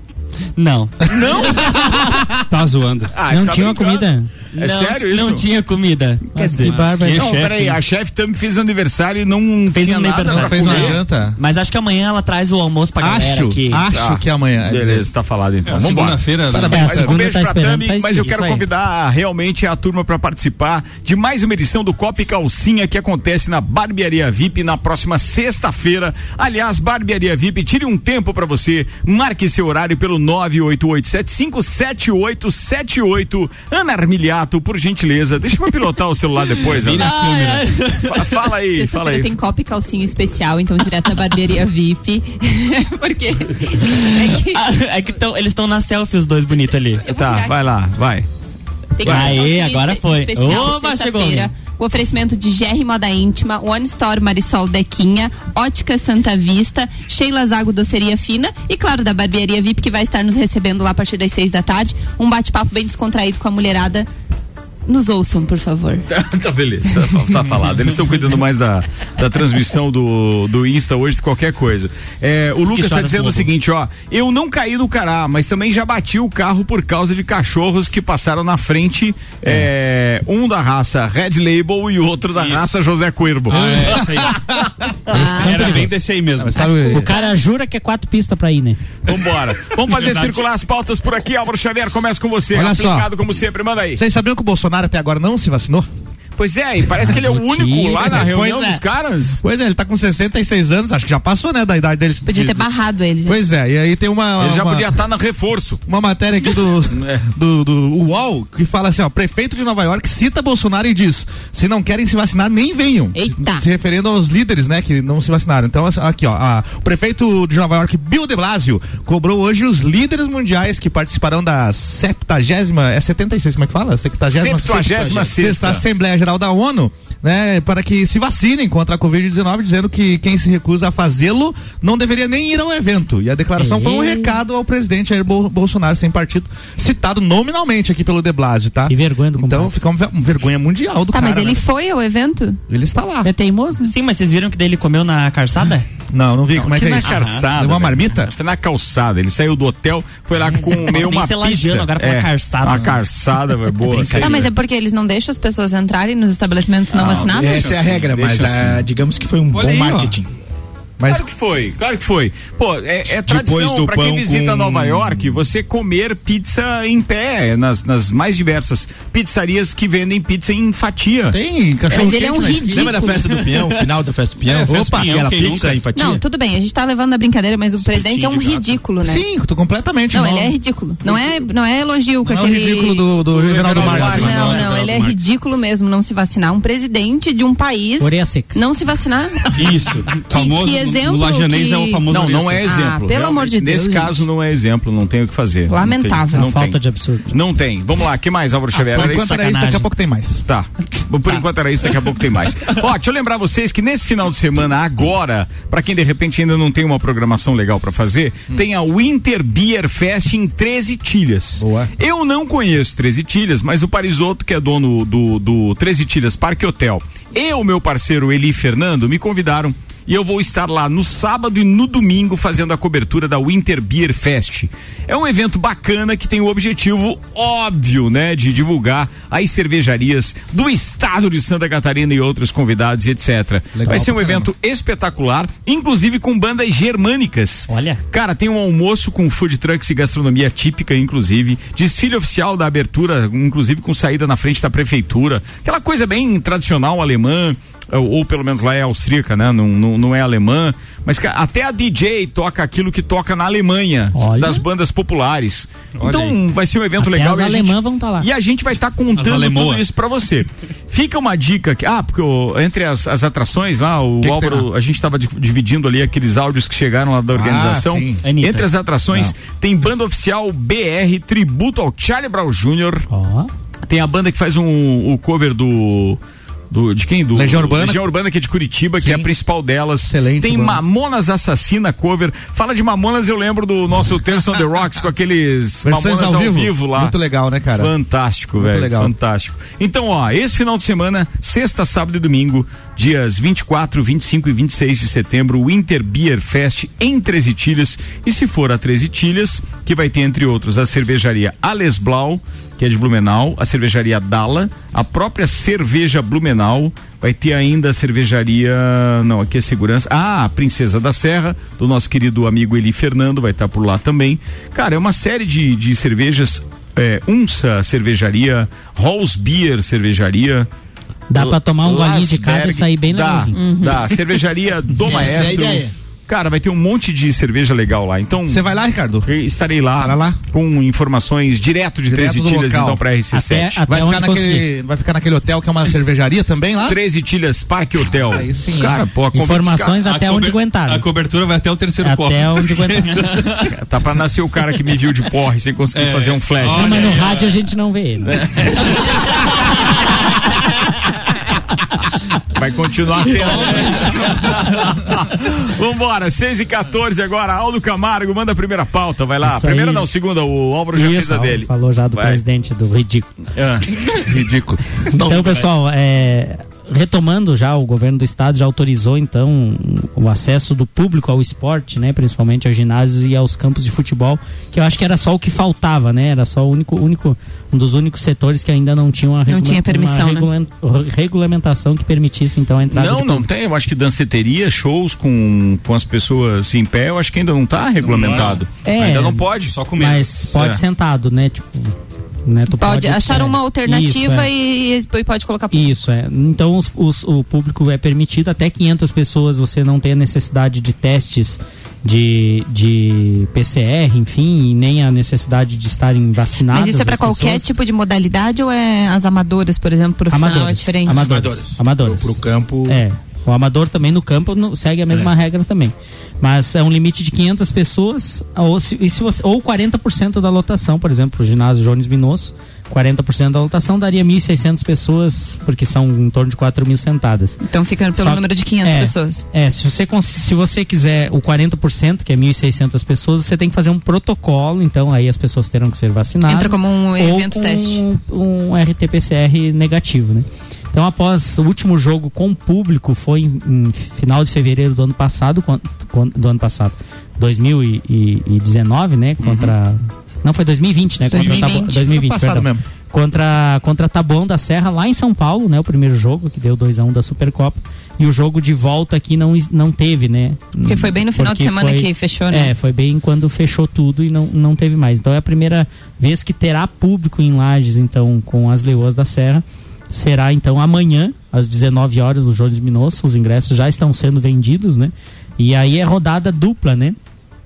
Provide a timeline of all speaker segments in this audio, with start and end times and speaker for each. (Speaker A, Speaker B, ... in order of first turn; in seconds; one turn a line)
Speaker A: 0.6-1.6
Speaker B: 1.0-2.2
Speaker C: 2.5-3.1
Speaker B: 3.1-5.5
Speaker D: 3.3-4.3
Speaker A: 4.5-6.8
Speaker D: 6.3-7.4
Speaker C: 6.6-7.8
Speaker B: 7.2-11.0
Speaker A: 9.7-13.9
Speaker E: 10.2-11.4
Speaker E: 13.0-15.1
Speaker B: 13.9-37.2
Speaker C: 15.7-16.9
Speaker E: 16.5-17.2
Speaker D: 16.7-18.4
Speaker A: 18.2-18.6
Speaker C: 36.6-37.8
Speaker A: 36.9-38.4
Speaker B: 37.9-39.3
Speaker F: 38.7-44.6
Speaker A: 43.9-47.0
Speaker F: 47.1-47.6
Speaker B: 47.1-48.3
Speaker F: 49.0-64.1
Speaker B: 49.0-49.4
Speaker A: 49.0-51.5
Speaker F: 64.9-66.0
Speaker B: 66.1-84.1
Speaker A: 72.7-73.5
Speaker C: 82.4-82.7
Speaker C: 83.5-84.5
Speaker E: 83.5-84.7
Speaker F: 85.1-85.8
Speaker D: 85.1-85.8
Speaker C: 85.2-86.6
Speaker E: 86.4-87.1
Speaker D: 86.8-88.8
Speaker F: 87.0-87.3
Speaker B: 89.0-94.0
Speaker C: 89.9-90.5
Speaker E: 92.5-93.1
Speaker E: 94.0-95.9
Speaker B: 96.4-99.4
Speaker D: 97.0-98.3
Speaker E: 98.1-98.8
Speaker E: 99.4-102.7
Speaker F: 102.2-103.4
Speaker E: 103.3-104.9
Speaker B: 104.4-105.8
Speaker E: 105.9-141.6
Speaker B: 106.9-107.2
Speaker F: 113.1-113.7
Speaker B: 124.3-125.8
Speaker D: 133.6-134.4
Speaker D: 138.9-139.7
Speaker F: 141.1-142.6
Speaker E: 142.7-143.3
Speaker D: 143.2-143.9
Speaker A: 143.8-145.9
Speaker E: 146.1-148.3
Speaker B: 146.5-154.5
Speaker A: 147.0-147.5
Speaker A: 150.4-153.0
Speaker A: 153.8-154.5
Speaker F: 154.2-157.7
Speaker B: 156.9-158.5
Speaker G: 157.2-160.3
Speaker C: 157.4-158.7
Speaker C: 159.5-160.2
Speaker E: 161.0-161.3
Speaker B: 161.1-171.4
Speaker E: 163.3-165.3
Speaker E: 171.3-173.0
Speaker F: 171.9-173.4
Speaker G: 172.7-176.2
Speaker C: 174.4-175.8
Speaker E: 174.7-175.8
Speaker F: 175.9-179.2
Speaker C: 177.8-178.8
Speaker E: 179.0-180.6
Speaker F: 180.1-183.2
Speaker E: 182.2-184.6
Speaker B: 183.3-184.7
Speaker C: 183.7-185.2
Speaker F: 184.0-189.7
Speaker D: 188.0-188.5
Speaker C: 189.5-192.8
Speaker F: 190.2-192.1
Speaker B: 192.1-199.7
Speaker F: 192.6-194.2
Speaker F: 195.7-196.5
Speaker D: 196.3-197.3
Speaker A: 198.7-199.8
Speaker E: 198.9-200.4
Speaker B: 200.5-273.1
Speaker E: 211.6-211.9
Speaker E: 233.7-234.5
Speaker D: 237.7-238.0
Speaker D: 254.2-254.6
Speaker C: 256.0-256.4
Speaker D: 257.0-258.3
Speaker C: 259.1-259.9
Speaker E: 264.2-264.7
Speaker E: 267.3-268.2
Speaker A: 268.2-268.7
Speaker D: 273.1-273.5
Speaker B: 273.9-276.2
Speaker B: 276.7-320.7
Speaker E: 277.3-278.1
Speaker E: 279.0-279.3
Speaker E: 280.0-280.8
Speaker E: 285.8-287.9
Speaker E: 288.6-289.1
Speaker D: 321.3-323.8
Speaker B: 321.3-328.7
Speaker F: 323.5-324.1
Speaker G: 325.0-325.9
Speaker E: 328.4-329.3
Speaker B: 329.2-333.8
Speaker E: 330.0-330.4
Speaker E: 332.1-333.0
Speaker D: 333.3-334.7
Speaker E: 333.9-337.0
Speaker B: 336.9-340.0
Speaker E: 338.2-339.0
Speaker D: 339.3-341.1
Speaker C: 340.0-343.7
Speaker D: 342.0-343.3
Speaker B: 343.7-347.2
Speaker C: 345.9-347.5
Speaker D: 346.7-348.4
Speaker B: 348.4-349.1
Speaker B: 352.5-362.4
Speaker C: 353.3-354.6
Speaker D: 359.4-360.1
Speaker D: 360.9-363.3
Speaker B: 363.6-364.1
Speaker E: 364.2-364.8
Speaker D: 365.1-383.5
Speaker B: 365.2-365.7
Speaker F: 379.5-380.5
Speaker B: 382.9-389.8
Speaker C: 388.0-388.6
Speaker D: 388.8-391.9
Speaker C: 389.7-390.5
Speaker D: 392.4-394.5
Speaker F: 392.8-395.9
Speaker D: 395.7-407.7
Speaker F: 406.7-411.2
Speaker D: 410.3-427.6
Speaker G: 411.1-413.0
Speaker F: 427.6-429.4
Speaker D: 428.1-477.2
Speaker F: 436.5-438.0
Speaker B: 449.4-449.7
Speaker F: 451.3-452.0
Speaker E: 451.4-452.8
Speaker F: 460.9-462.7